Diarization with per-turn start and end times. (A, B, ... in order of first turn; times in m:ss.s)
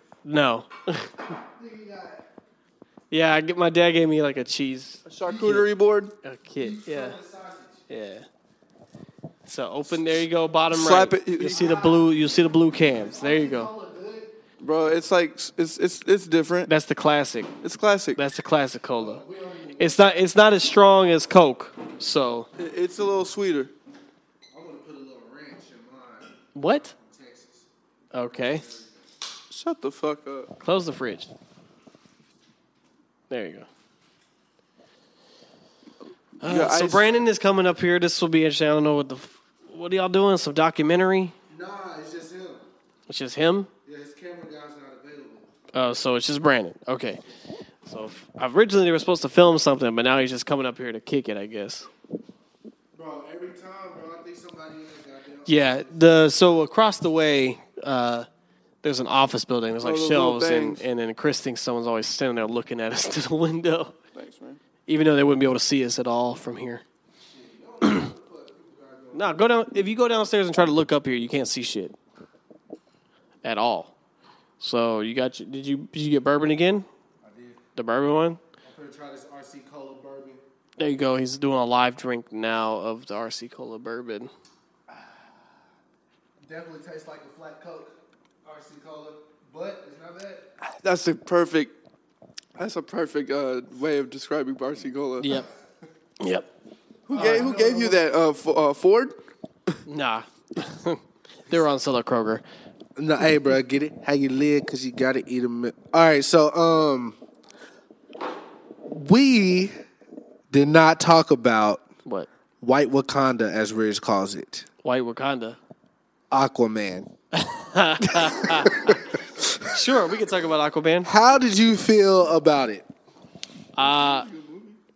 0:00.2-0:01.2 A
0:01.4-0:02.2 B
0:03.1-0:05.7 A
0:05.0-0:06.1 C
0:06.2-0:07.2 A
0:06.6-0:07.8 B
0:07.9-0:08.2 A
0:09.4-0:13.7 A
0:10.7-0:11.9 C
0:11.4-0:12.1 B
0:12.8-0:14.3 B
0:14.6-0:16.7 C
0:16.6-0:17.5 A
0:17.6-0:18.2 C
0:18.2-0:19.2 A
0:19.0-0:20.0 B
0:19.8-0:22.5 A
0:22.6-0:23.7 C
0:24.5-0:27.7 B
0:26.5-0:26.9 A
0:28.1-0:28.7 A
0:28.3-0:28.9 B
0:29.5-0:30.5 C
0:30.6-0:31.3 A
0:33.3-0:33.7 A
0:36.4-0:37.2 C
0:36.4-0:41.3 A
0:41.5-0:42.6 B
0:43.1-0:43.7 A
0:43.8-0:45.5 B
0:45.7-0:47.2 A
0:47.8-0:51.9 A
0:52.9-0:56.3 B
0:55.4-0:58.3 A
0:58.8-1:03.9 A
0:59.8-1:00.8 C
1:04.1-1:04.6 C
1:04.9-1:06.8 A
1:07.3-1:09.4 B
1:09.1-1:11.9 A
1:13.4-1:13.9 A
1:14.6-1:16.9 A
1:17.2-1:17.6 B
1:17.8-1:18.4 A
1:18.6-1:20.4 B
1:20.8-1:24.3 A
1:24.9-1:25.3 B
1:26.4-1:30.5 B
1:30.6-1:31.7 C
1:32.6-1:35.3 C
1:35.2-1:35.5 A
1:36.2-1:36.5 A
1:37.1-1:39.2 C
1:37.1-1:38.0 B
1:37.2-1:37.5 A
1:39.8-1:42.4 A
1:43.0-1:47.2 B
1:48.9-1:49.7 B
1:50.5-1:51.8 B
1:52.6-1:54.6 B
1:54.8-1:55.6 A
1:56.3-1:57.1 B
1:57.3-2:01.1 A
1:58.0-1:59.6 B
2:01.0-2:02.8 B
2:03.8-2:04.3 A
2:03.8-2:04.8 C